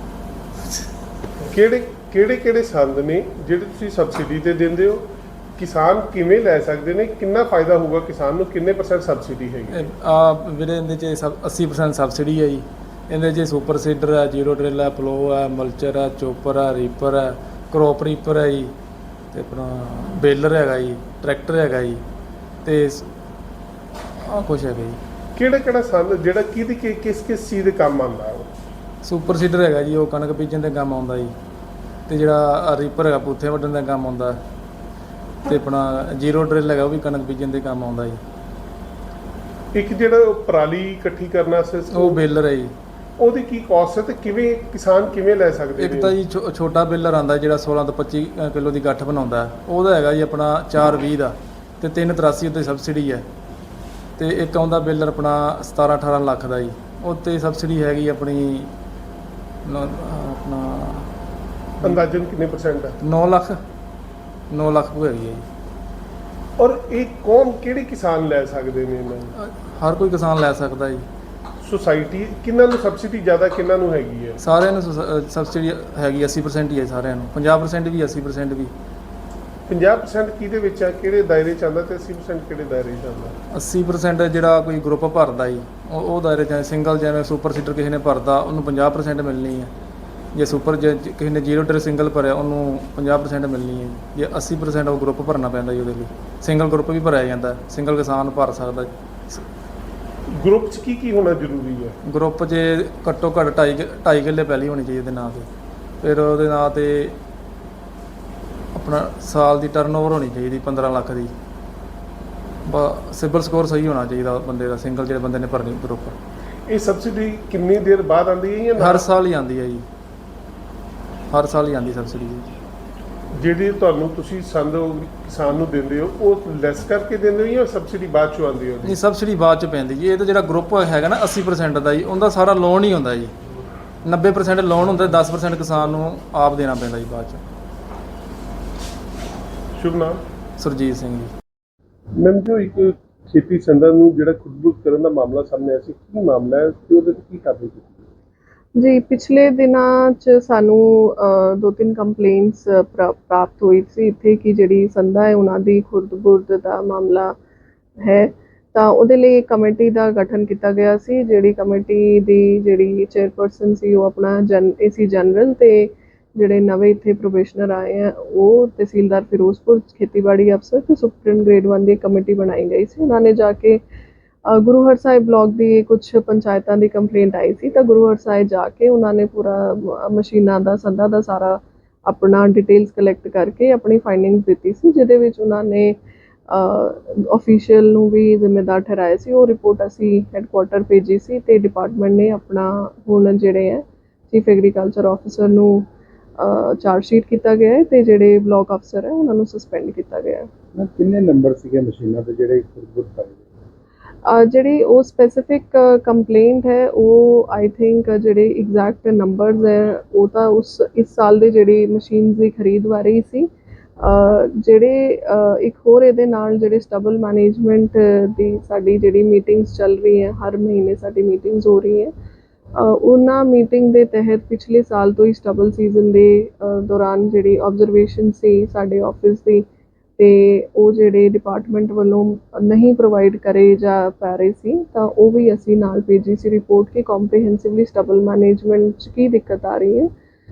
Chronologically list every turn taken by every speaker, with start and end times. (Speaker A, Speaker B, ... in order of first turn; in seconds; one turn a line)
Speaker A: 1.4-9.8
Speaker B: 9.7-18.7
Speaker B: 19.3-22.0
Speaker B: 22.6-23.1
Speaker B: 24.2-25.0
Speaker A: 25.4-28.5
Speaker B: 29.0-31.4
Speaker B: 32.1-34.4
Speaker B: 35.5-38.2
Speaker A: 39.7-42.2
Speaker B: 41.9-42.7
Speaker A: 43.2-46.1
Speaker B: 45.8-53.3
Speaker B: 54.2-58.7
Speaker B: 59.6-61.1
Speaker A: 61.8-63.0
Speaker B: 63.0-63.6
Speaker B: 64.5-65.5
Speaker A: 66.6-69.3
Speaker B: 69.4-71.1
Speaker A: 71.6-74.4
Speaker B: 74.4-78.7
Speaker A: 79.7-83.4
Speaker B: 83.5-89.7
Speaker B: 90.3-99.5
Speaker A: 100.3-102.0
Speaker B: 102.0-105.5
Speaker B: 106.0-107.2
Speaker B: 108.7-111.3
Speaker B: 112.7-116.2
Speaker A: 116.7-119.1
Speaker B: 118.8-119.8
Speaker B: 121.3-122.5
Speaker A: 123.3-129.0
Speaker B: 128.8-133.3
Speaker B: 134.0-137.4
Speaker A: 139.8-140.2
Speaker B: 140.6-141.3
Speaker A: 142.2-148.0
Speaker C: 148.8-157.3
Speaker C: 158.0-173.8
Speaker C: 174.5-186.0
Speaker C: 186.5-195.9
Speaker C: 196.4-200.5
Speaker D: 200.8-203.4
Speaker C: 204.3-213.5
Speaker C: 214.0-222.1
Speaker C: 222.8-229.7
Speaker C: 230.2-240.1